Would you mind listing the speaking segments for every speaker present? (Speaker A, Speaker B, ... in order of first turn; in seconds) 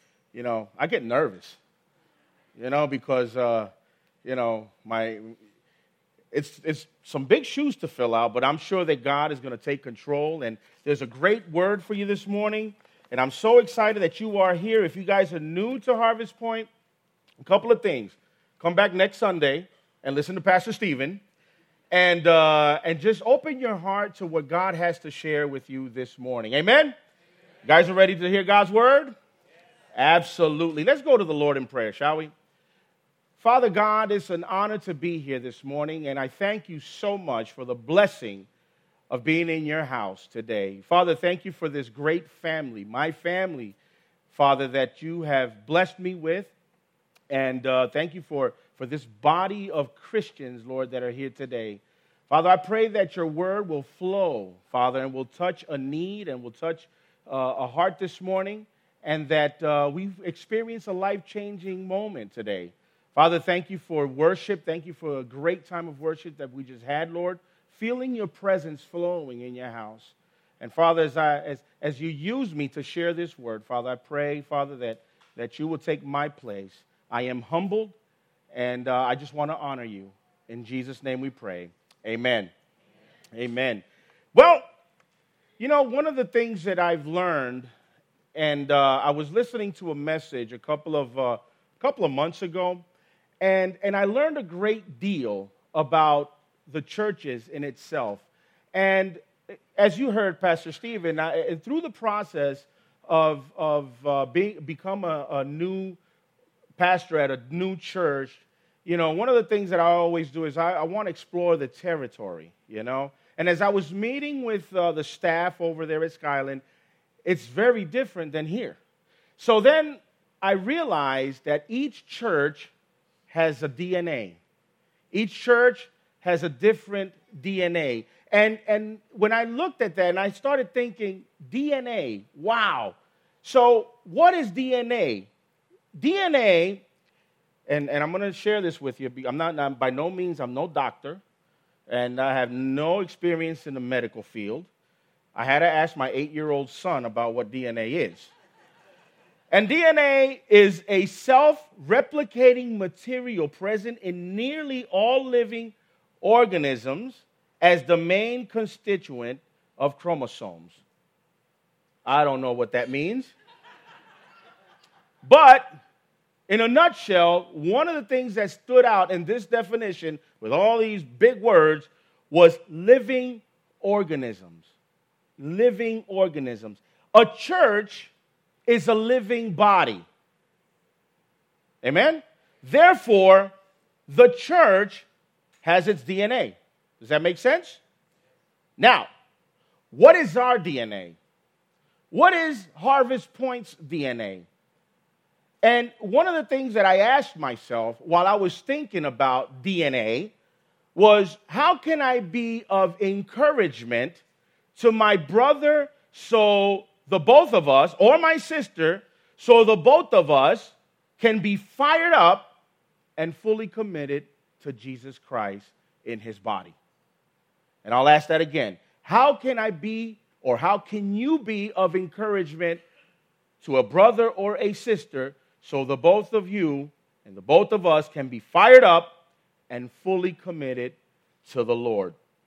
Speaker A: 0.3-1.6, 2.5-3.7, 4.2-5.3, 6.3-16.7, 17.4-21.2, 21.9-26.9, 27.6-29.1, 29.9-32.3, 33.4-38.5, 39.1-43.8, 44.3-46.5, 47.3-78.0, 78.5-82.5, 83.3-84.6, 85.6-87.7, 88.3-92.8, 93.4-99.2, 99.8-106.0, 106.8-116.6, 117.2-118.8, 119.4-122.7, 123.3-124.4, 125.1-135.3, 135.9-136.8, 137.7-141.2, 141.9-144.7, 145.3-148.3, 149.5-160.8, 162.0-163.3, 165.2-165.8, 166.5-174.6, 175.4-178.1, 178.7-180.0, 181.8-183.5, 184.1-185.1, 185.6-187.8, 188.8-189.1, 189.9-191.2, 192.1-194.5, 195.6-200.3, 200.9-204.2, 204.8-212.5, 213.2-216.8, 217.8-222.8, 223.6-229.1, 229.7-232.2